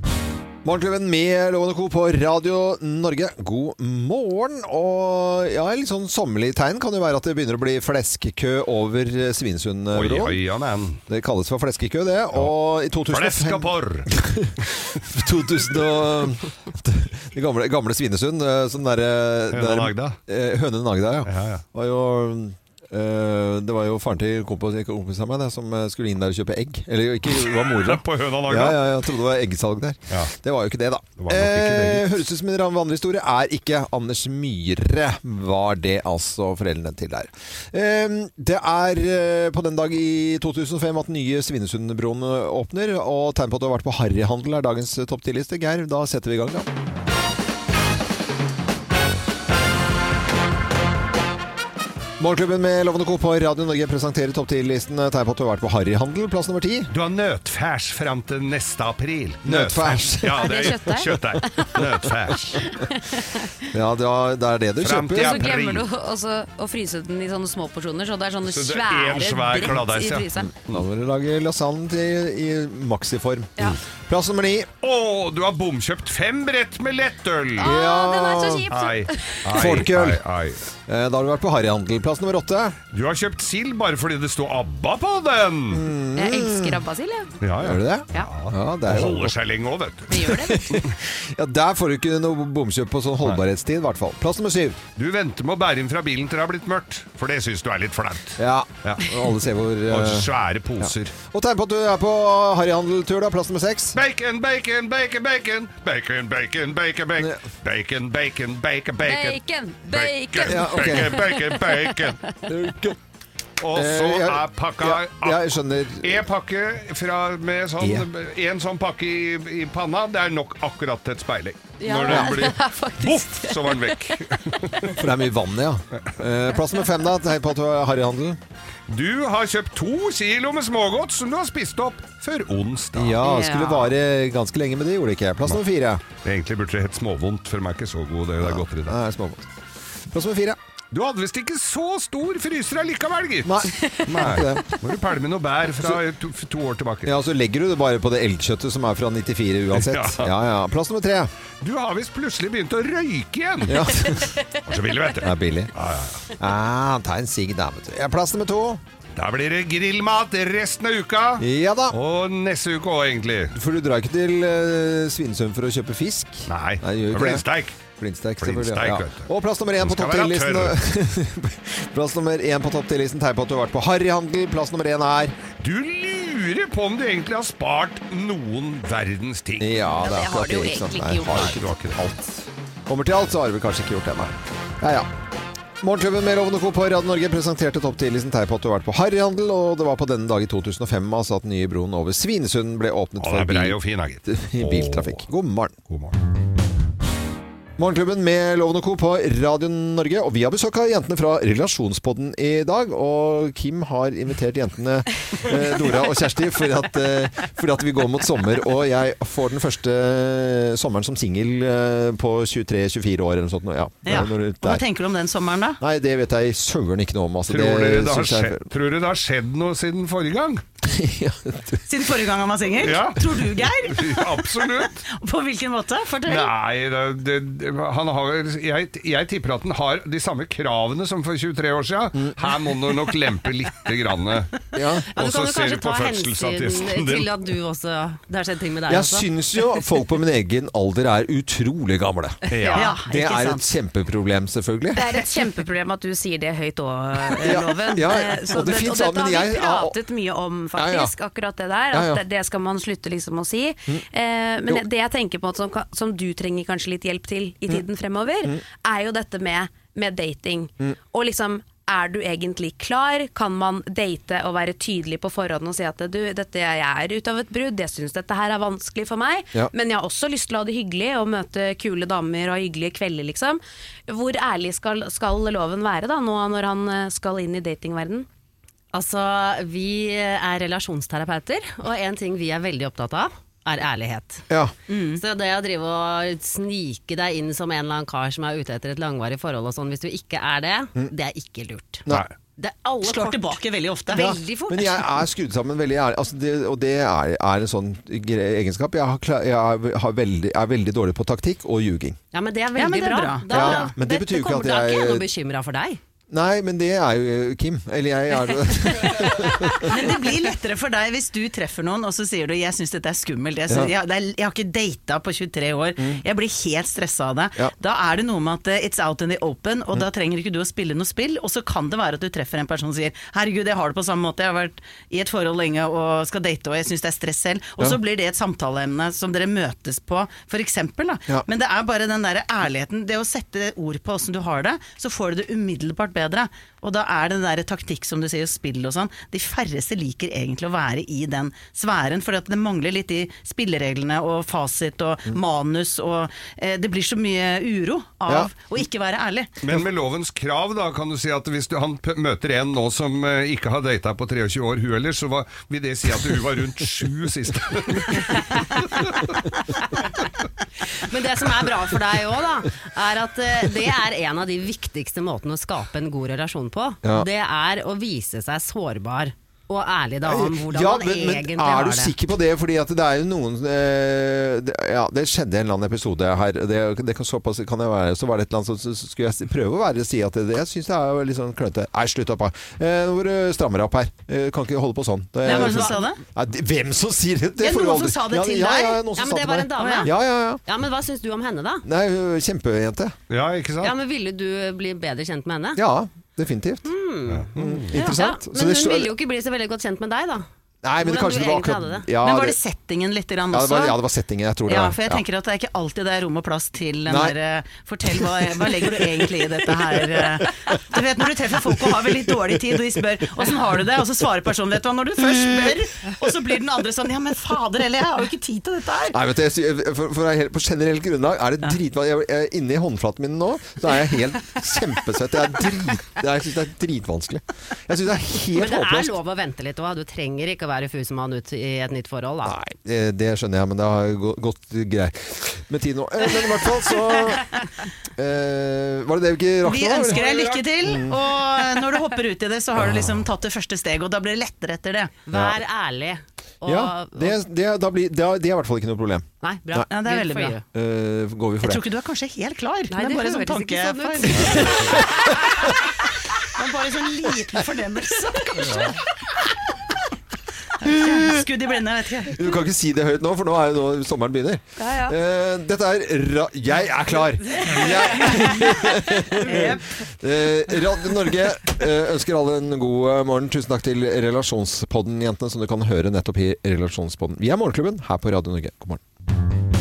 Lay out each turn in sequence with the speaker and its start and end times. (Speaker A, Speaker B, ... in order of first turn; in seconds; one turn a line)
Speaker A: 0.6-10.4
Speaker B: 9.9-11.0
Speaker A: 11.1-46.7
Speaker B: 13.1-14.1
Speaker B: 19.5-20.2
Speaker B: 21.2-21.6
Speaker B: 27.2-29.1
Speaker B: 31.2-32.1
Speaker A: 52.2-56.9
Speaker B: 56.9-62.7
Speaker A: 59.4-60.8
Speaker C: 60.4-61.8
Speaker C: 62.6-63.5
Speaker A: 63.7-65.5
Speaker B: 64.8-65.9
Speaker C: 65.2-70.5
Speaker B: 68.5-70.8
Speaker A: 70.4-74.7
Speaker B: 74.8-77.7
Speaker C: 77.6-79.5
Speaker A: 77.6-78.7
Speaker B: 78.7-80.6
Speaker A: 79.5-80.2
Speaker A: 80.9-82.8
Speaker B: 82.9-85.9
Speaker A: 85.7-86.8
Speaker C: 86.1-87.4
Speaker B: 87.4-90.1
Speaker A: 87.6-89.3
Speaker C: 90.1-90.8
Speaker A: 90.2-94.8
Speaker B: 94.9-99.1
Speaker A: 98.4-100.3
Speaker B: 99.9-101.1
Speaker A: 100.8-104.0
Speaker B: 103.9-112.2
Speaker C: 109.0-112.2
Speaker A: 110.4-111.2
Speaker A: 112.5-113.0
Speaker B: 113.6-124.9
Speaker A: 113.7-116.2
Speaker A: 117.8-118.1
Speaker C: 121.8-124.9
Speaker A: 122.1-122.4
Speaker A: 124.9-128.4
Speaker B: 128.9-133.2
Speaker A: 132.9-136.0
Speaker C: 133.2-133.9
Speaker B: 136.2-139.0
Speaker A: 138.4-139.5
Speaker A: 140.1-140.6
Speaker B: 140.9-147.1
Speaker A: 143.4-144.8
Speaker C: 143.8-144.2
Speaker A: 147.1-151.3
Speaker B: 149.7-150.3
Speaker B: 151.6-156.2
Speaker A: 153.7-154.2
Speaker C: 154.3-154.6
Speaker A: 155.2-155.7
Speaker A: 156.3-158.8
Speaker B: 159.2-163.5
Speaker A: 161.4-162.0
Speaker A: 163.5-175.3
Speaker B: 166.5-167.8
Speaker B: 168.4-170.8
Speaker B: 175.6-179.8
Speaker A: 179.6-185.1
Speaker C: 180.0-181.6
Speaker B: 181.3-182.0
Speaker A: 185.8-195.7
Speaker B: 193.2-195.2
Speaker B: 195.9-196.2
Speaker A: 197.8-214.8
Speaker D: 214.1-215.8
Speaker A: 215.8-218.7
Speaker B: 217.5-220.6
Speaker A: 220.8-221.8
Speaker D: 221.9-226.5
Speaker B: 222.8-225.0
Speaker B: 226.2-234.5
Speaker A: 234.7-235.1
Speaker E: 235.1-239.3
Speaker B: 235.2-237.3
Speaker A: 238.9-242.4
Speaker B: 242.5-242.9
Speaker C: 242.6-243.0
Speaker D: 242.7-243.7
Speaker A: 243.0-245.0
Speaker C: 245.0-278.3
Speaker A: 247.4-249.9
Speaker A: 250.7-251.1
Speaker A: 251.9-252.2
Speaker E: 278.9-284.5
Speaker A: 284.5-284.7
Speaker D: 284.9-285.2
Speaker E: 285.1-292.1
Speaker E: 292.6-295.1
Speaker D: 293.0-294.3
Speaker A: 294.1-302.2
Speaker E: 302.3-306.0
Speaker D: 302.8-303.9
Speaker A: 303.5-305.3
Speaker A: 306.3-309.9
Speaker D: 309.7-349.5
Speaker B: 349.6-359.4
Speaker E: 360.9-372.1
Speaker A: 370.2-390.6
Speaker D: 385.4-386.2
Speaker E: 385.4-385.9
Speaker D: 387.6-389.0
Speaker E: 389.1-391.9
Speaker D: 389.8-390.1
Speaker A: 391.8-393.1
Speaker B: 393.3-393.9
Speaker E: 393.8-395.8
Speaker A: 395.8-396.9
Speaker E: 396.8-400.5
Speaker B: 397.3-397.9
Speaker A: 397.6-399.1
Speaker A: 400.8-402.6
Speaker E: 401.0-402.1
Speaker D: 402.2-404.0
Speaker A: 403.5-405.2
Speaker D: 404.6-419.2
Speaker A: 407.1-407.3
Speaker A: 419.1-429.2
Speaker E: 428.5-432.6
Speaker A: 432.4-437.6
Speaker A: 438.2-440.2
Speaker D: 439.6-445.2
Speaker E: 440.1-440.7
Speaker A: 440.8-441.1
Speaker E: 445.2-447.4
Speaker A: 446.6-449.9
Speaker E: 449.4-450.6
Speaker D: 449.9-450.6
Speaker A: 450.7-451.8
Speaker D: 451.6-455.5
Speaker E: 452.9-454.9
Speaker D: 456.5-459.0
Speaker D: 460.8-462.4
Speaker A: 460.8-461.4
Speaker A: 462.3-479.0
Speaker C: 464.8-465.1
Speaker D: 467.6-469.9